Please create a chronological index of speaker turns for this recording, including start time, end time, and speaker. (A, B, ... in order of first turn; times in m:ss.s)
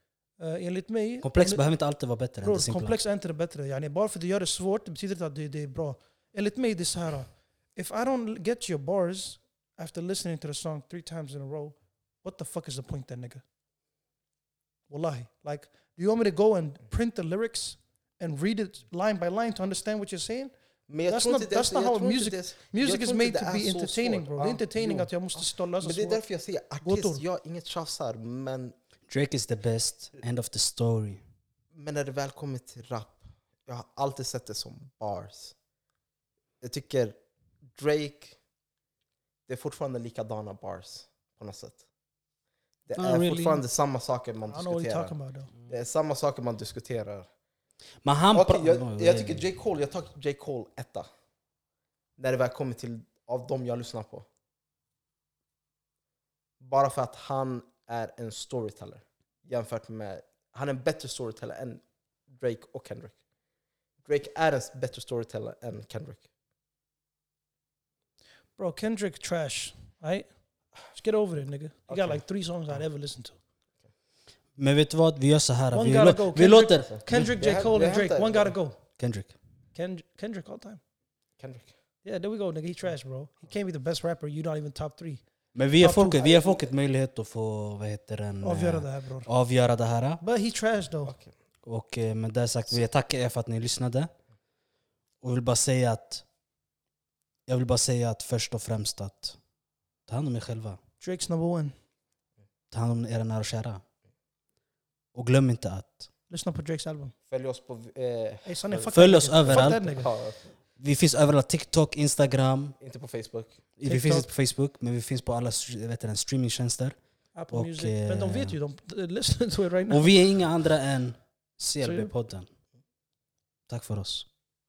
0:00.4-0:01.6 A
0:01.2-0:03.0 B
0:02.4-0:13.4 A
0:14.9-0:20.5 A
0:20.9-0:28.8 C
0:21.1-0:26.2 A
0:26.8-0:27.2 A
0:29.1-0:31.2 B
0:31.7-0:35.6 C
0:36.6-0:37.2 C
0:37.8-0:38.4 C
0:39.5-0:41.8 C
0:42.9-0:45.1 C
0:43.0-0:43.6 B
0:44.5-0:45.5 A
0:45.7-0:47.3 C
0:48.0-0:49.4 B
0:48.3-0:51.1 C
0:52.2-0:54.3 C
0:56.6-1:03.2 C
1:04.0-1:06.2 C
1:08.6-1:10.3 A
1:10.9-1:13.4 A
1:11.9-1:12.2 C
1:14.6-1:17.3 B
1:15.7-1:18.8 A
1:16.9-1:18.6 C
1:19.0-1:19.4 B
1:19.7-1:20.8 A
1:21.4-1:21.7 C
1:22.0-1:25.2 A
1:25.6-1:30.2 B
1:25.8-1:26.5 A
1:28.4-1:29.3 A
1:30.2-1:31.2 A
1:31.6-1:34.1 B
1:35.2-1:36.2 B
1:37.5-1:39.4 B
1:40.1-1:40.8 B
1:41.0-1:41.7 A
1:42.7-1:43.8 B
1:45.1-1:46.1 B
1:46.3-1:47.1 A
1:47.3-1:50.5 C
1:48.5-1:50.1 A
1:48.9-1:49.9 B
1:50.8-1:52.8 B
1:52.8-1:53.6 C
1:53.8-1:57.0 B
1:53.8-1:54.3 A
1:57.4-2:00.1 A
1:57.5-1:58.6 B
1:59.9-2:02.5 B
2:01.8-2:02.1 A
2:03.7-2:04.3 B